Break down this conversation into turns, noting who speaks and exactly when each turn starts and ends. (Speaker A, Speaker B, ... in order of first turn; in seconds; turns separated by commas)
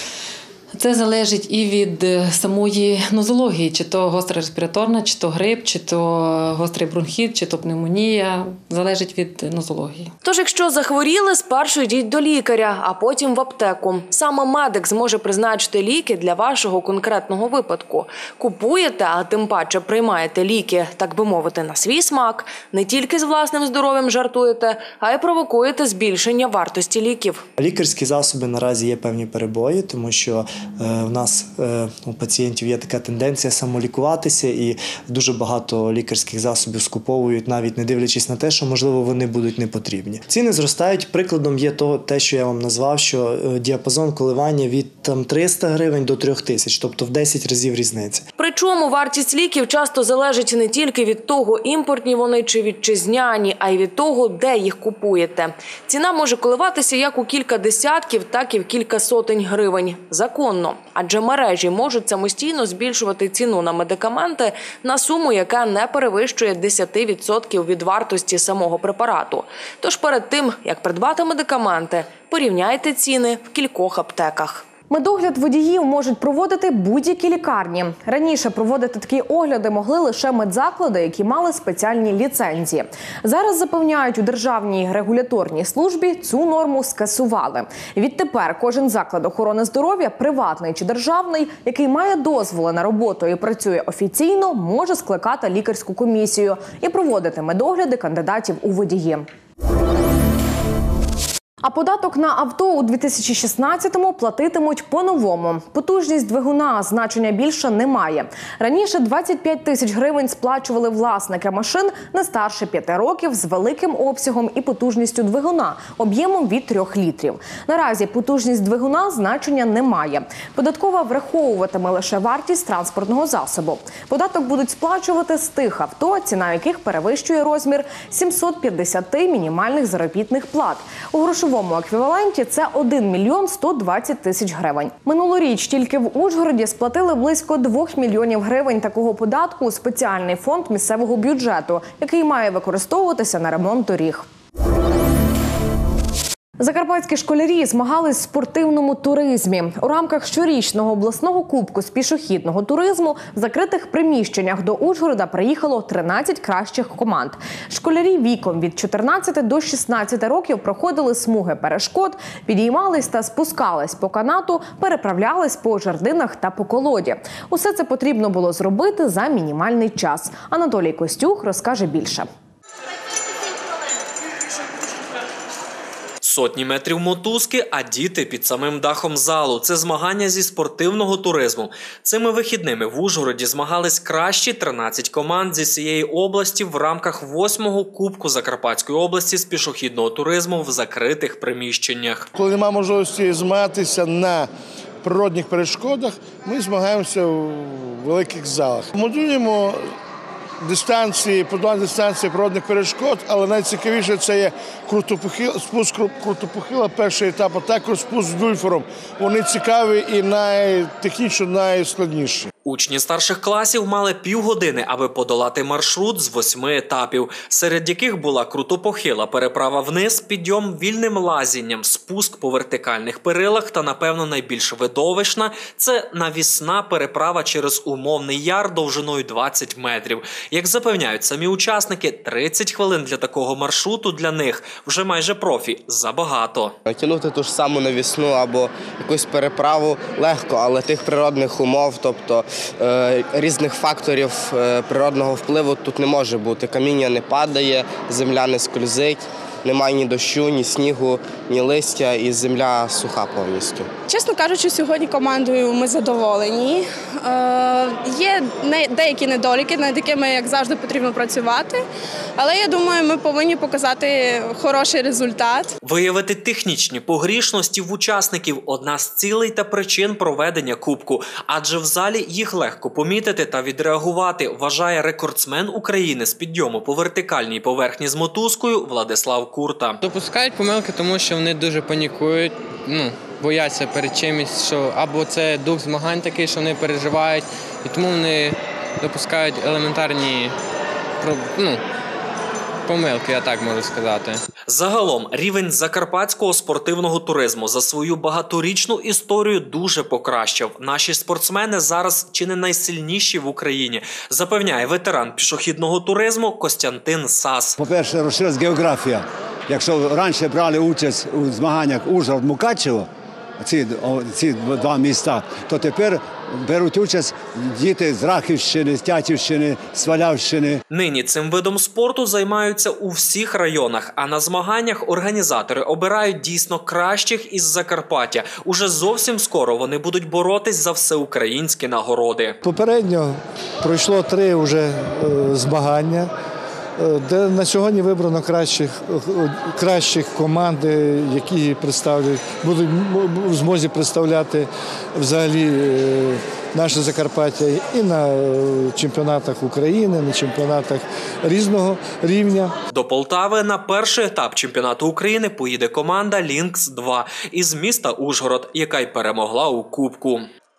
Speaker A: 0.7-10.1, Speaker B: 10.2-27.4, Speaker C: 27.6-48.2, Speaker B: 48.4-74.7, Speaker D: 74.9-99.2, Speaker D: 101.6-144.2, Speaker D: 146.6-172.3, Speaker E: 176.2-192.3, Speaker F: 192.3-194.5, Speaker F: 195.0-199.8, Speaker F: 200.6-212.5, Speaker E: 212.6-236.7, Speaker G: 236.8-253.9, Speaker H: 254.1-261.8, Speaker H: 262.4-265.7, Speaker E: 265.8-280.0, Speaker I: 280.0-290.5, Speaker I: 291.2-291.8, Speaker I: 292.9-294.4, Speaker E: 294.7-307.7, Speaker J: 307.8-313.1, Speaker J: 313.6-320.8, Speaker E: 320.9-332.6, Speaker K: 332.6-336.3, Speaker K: 337.0-344.6, Speaker K: 345.2-352.7, Speaker E: 352.9-360.5